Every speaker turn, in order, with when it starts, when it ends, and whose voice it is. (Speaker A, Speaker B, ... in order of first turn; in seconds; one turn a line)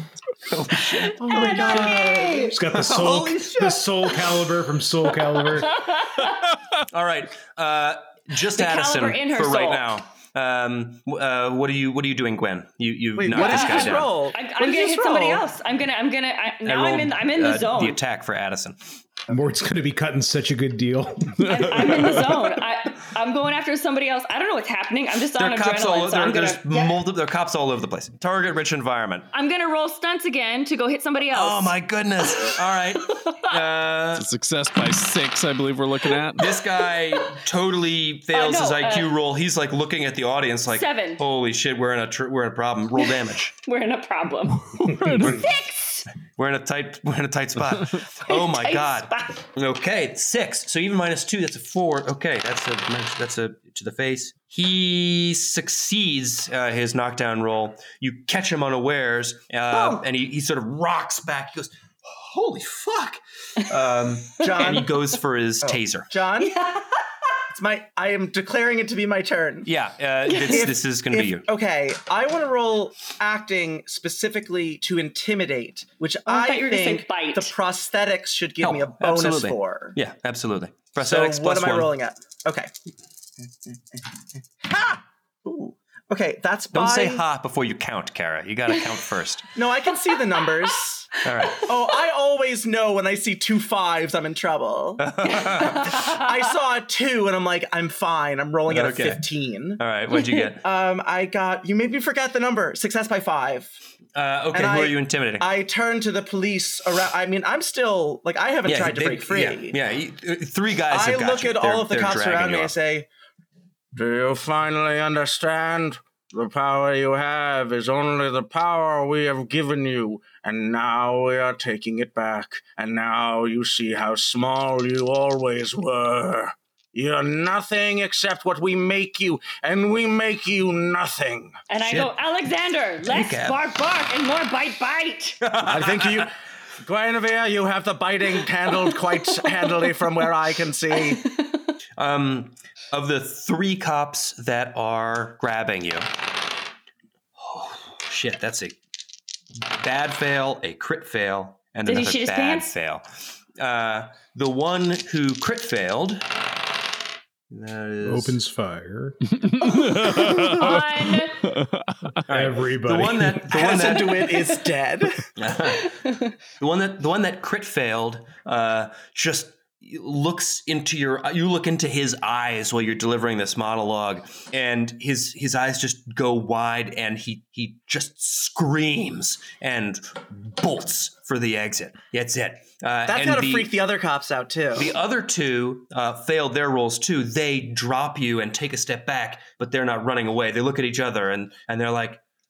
Speaker A: 0.5-3.8
Speaker B: 1.2-2.6
Speaker C: 1.3-5.8
Speaker D: 1.5-2.3
Speaker B: 5.6-6.4
Speaker A: 6.8-14.2
Speaker B: 8.5-9.8
Speaker D: 13.2-15.4
Speaker B: 13.3-18.0
Speaker A: 16.6-18.8
Speaker C: 19.3-22.0
Speaker B: 21.4-27.0
Speaker A: 25.4-29.3
Speaker B: 29.3-33.5
Speaker A: 31.3-34.3
Speaker E: 34.1-36.5
Speaker B: 36.3-37.4
Speaker A: 36.4-43.5
Speaker B: 38.3-39.1
Speaker B: 40.7-41.2
Speaker B: 43.6-46.1
Speaker E: 44.8-45.5
Speaker A: 45.2-45.5
Speaker A: 46.4-66.1
Speaker B: 48.3-49.5
Speaker D: 64.4-64.9
Speaker D: 65.6-66.5
Speaker B: 66.4-67.0
Speaker D: 67.5-69.7
Speaker A: 69.7-71.5
Speaker B: 70.3-70.7
Speaker D: 70.5-80.0
Speaker B: 76.3-77.5
Speaker A: 78.6-81.9
Speaker D: 81.0-82.7
Speaker D: 83.7-84.1
Speaker D: 84.6-87.2
Speaker A: 86.7-89.5
Speaker D: 89.6-99.8
Speaker A: 91.2-91.7
Speaker B: 91.4-91.7
Speaker A: 95.0-96.0
Speaker B: 95.3-96.3
Speaker A: 98.7-99.3
Speaker A: 99.8-100.7
Speaker B: 100.1-100.5
Speaker D: 100.6-103.7
Speaker A: 104.2-105.5
Speaker D: 104.5-109.8
Speaker A: 108.7-112.8
Speaker D: 110.9-113.1
Speaker D: 114.0-131.6
Speaker B: 131.7-135.4
Speaker A: 131.8-132.1
Speaker A: 133.0-133.6
Speaker A: 135.4-136.3
Speaker D: 135.7-141.2
Speaker B: 141.0-141.7
Speaker A: 142.0-146.2
Speaker A: 147.4-148.8
Speaker A: 149.7-153.1
Speaker B: 151.9-152.7
Speaker A: 153.6-156.4
Speaker A: 157.5-158.4
Speaker C: 158.0-159.2
Speaker E: 159.3-162.2
Speaker B: 159.7-161.4
Speaker A: 162.3-164.5
Speaker C: 162.3-163.5
Speaker D: 163.5-165.2
Speaker A: 165.4-183.7
Speaker D: 183.1-184.9
Speaker A: 184.8-192.2